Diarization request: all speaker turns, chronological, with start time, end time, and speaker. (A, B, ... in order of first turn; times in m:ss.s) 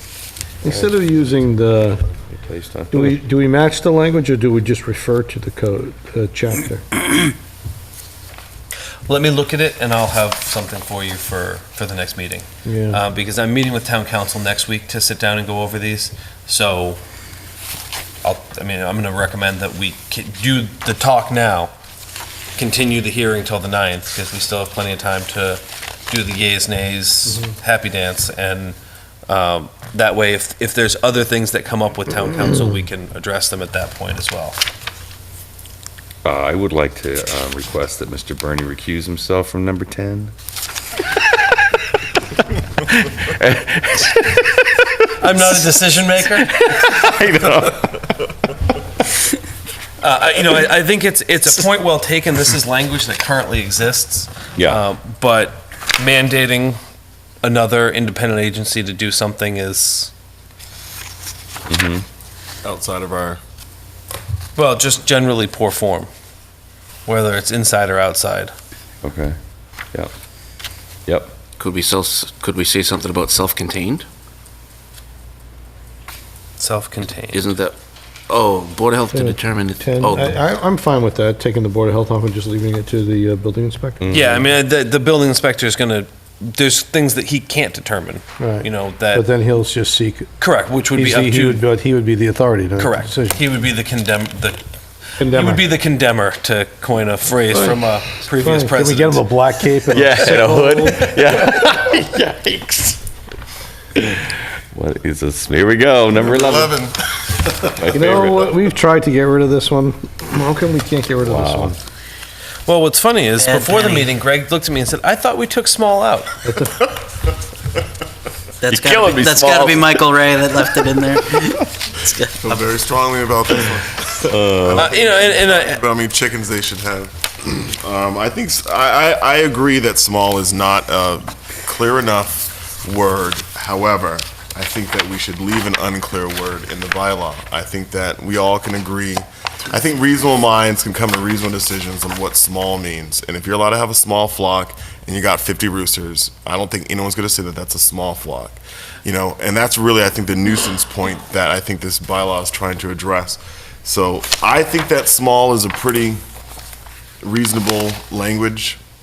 0:00.6-0:02.1 A
0:02.3-0:03.2 B
0:02.9-0:07.0 A
0:09.1-0:17.0 C
0:12.6-0:13.0 A
0:18.2-0:21.7 C
0:22.6-0:34.6 C
0:36.2-0:40.3 B
0:42.9-0:45.6 B
0:45.2-0:46.5 C
0:46.2-0:48.2 B
0:50.0-0:56.8 C
0:57.4-1:00.1 C
1:01.7-1:02.0 B
1:02.6-1:03.4 D
1:04.6-1:06.1 C
1:07.1-1:08.5 C
1:09.0-1:09.4 B
1:11.1-1:11.4 B
1:11.6-1:14.1 E
1:16.6-1:17.4 C
1:17.3-1:17.8 E
1:18.3-1:20.4 E
1:19.1-1:24.1 A
1:24.0-1:24.4 B
1:24.1-1:29.3 C
1:28.4-1:30.3 A
1:30.4-1:31.6 C
1:30.9-1:33.4 A
1:32.8-1:34.6 C
1:35.2-1:35.8 A
1:35.2-1:39.3 C
1:37.5-1:37.8 A
1:38.3-1:41.6 A
1:39.9-1:43.0 B
1:41.1-1:41.8 C
1:44.0-1:46.7 B
1:46.2-1:47.9 D
1:47.6-1:48.6 B
1:47.9-1:51.8 A
1:51.3-1:51.8 B
1:52.7-1:56.3 C
1:53.4-1:54.1 F
1:56.4-1:56.8 A
1:58.6-2:02.6 F
1:58.7-2:00.0 B
2:02.4-2:36.2 D
2:04.3-2:04.9 B
2:04.7-2:05.8 C
2:37.2-2:38.8 D